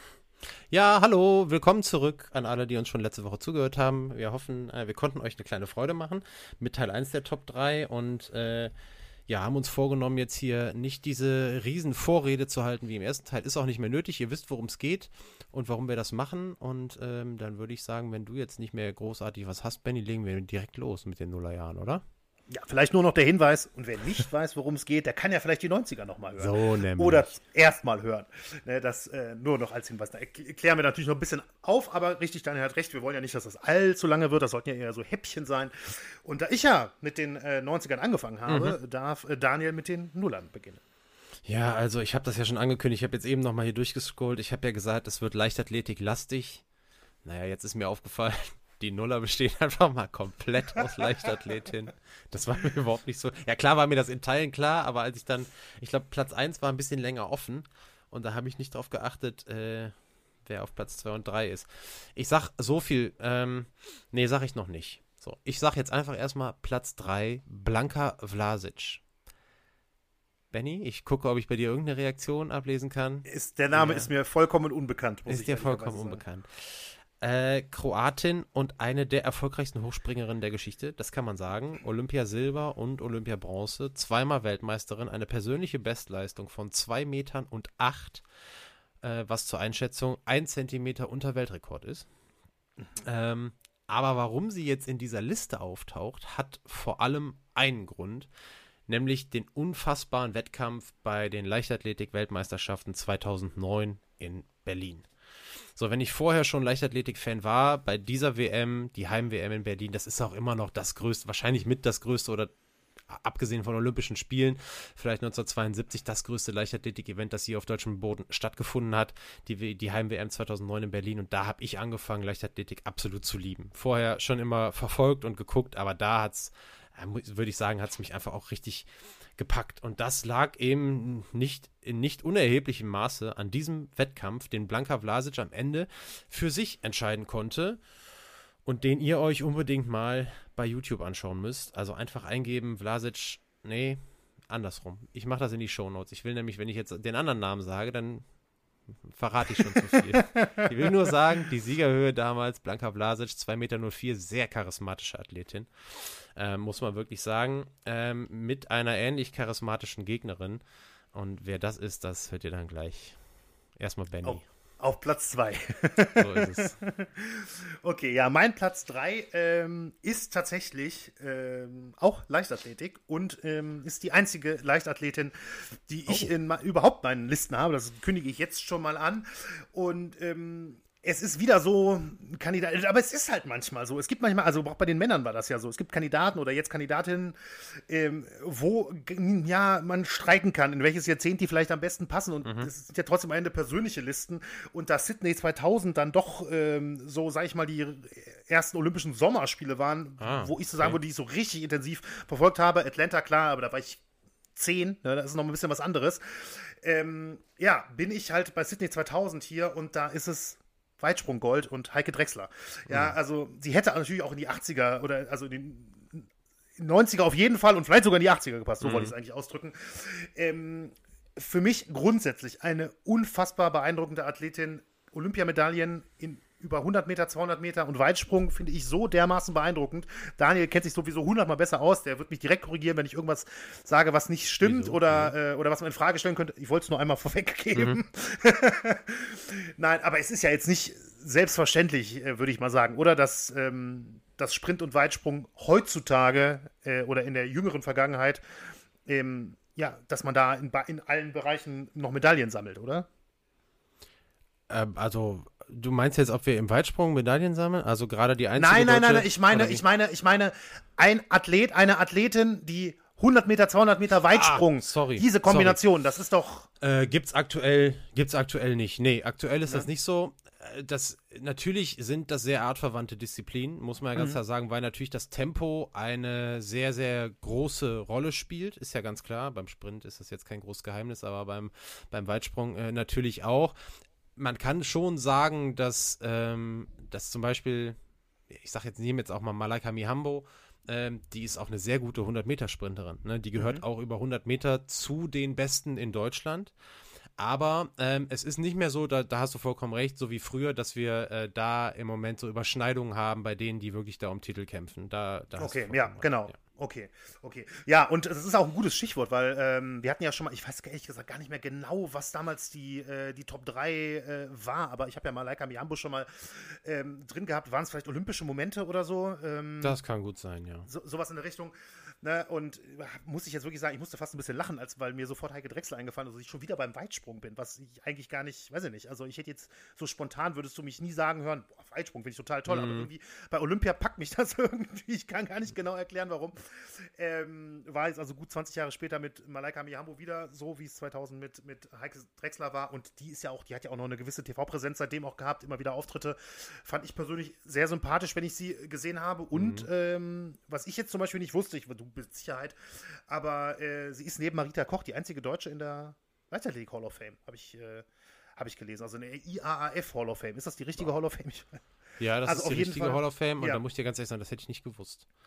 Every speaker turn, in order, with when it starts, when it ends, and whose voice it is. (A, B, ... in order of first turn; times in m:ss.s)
0:00.7-0:08.7 A
0:09.3-0:22.0 A
0:22.5-0:40.8 B
0:26.4-0:27.3 A
0:38.5-0:38.8 A
0:41.5-0:46.6 A
0:47.2-0:59.9 A
1:00.4-1:09.0 A
1:10.5-1:14.1 A
1:13.3-1:16.2 B
1:15.3-1:28.2 A
1:29.0-1:32.1 A
1:33.0-1:38.3 A
1:38.9-1:45.1 A
1:45.8-1:52.5 A
1:53.1-2:17.8 A
2:18.6-2:28.3 A
2:29.0-2:40.6 A
2:29.8-2:30.6 B
2:41.1-2:43.2 A
2:43.8-2:44.4 A
2:44.2-3:07.4 B
2:46.1-2:46.8 A
3:07.9-3:24.0 B
3:12.4-3:12.7 A
3:20.2-3:21.0 A
3:24.6-3:36.3 B
3:32.9-3:33.2 A
3:36.8-4:08.4 B
3:38.8-3:39.1 A
3:54.6-3:55.3 A
4:09.0-4:13.1 B
4:14.7-4:19.8 A
4:18.6-4:26.7 B
4:24.3-4:25.8 A
4:26.8-4:43.7 A
4:44.4-4:48.0 A
4:48.5-4:56.7 A
4:53.6-4:53.8 B
4:57.4-5:06.6 A
5:05.6-5:20.0 B
5:19.8-5:20.9 A
5:20.9-5:58.1 B
5:32.7-5:33.1 A
5:49.6-5:49.9 A
5:58.6-6:01.8 B
6:02.2-6:05.2 A
6:02.4-6:03.8 B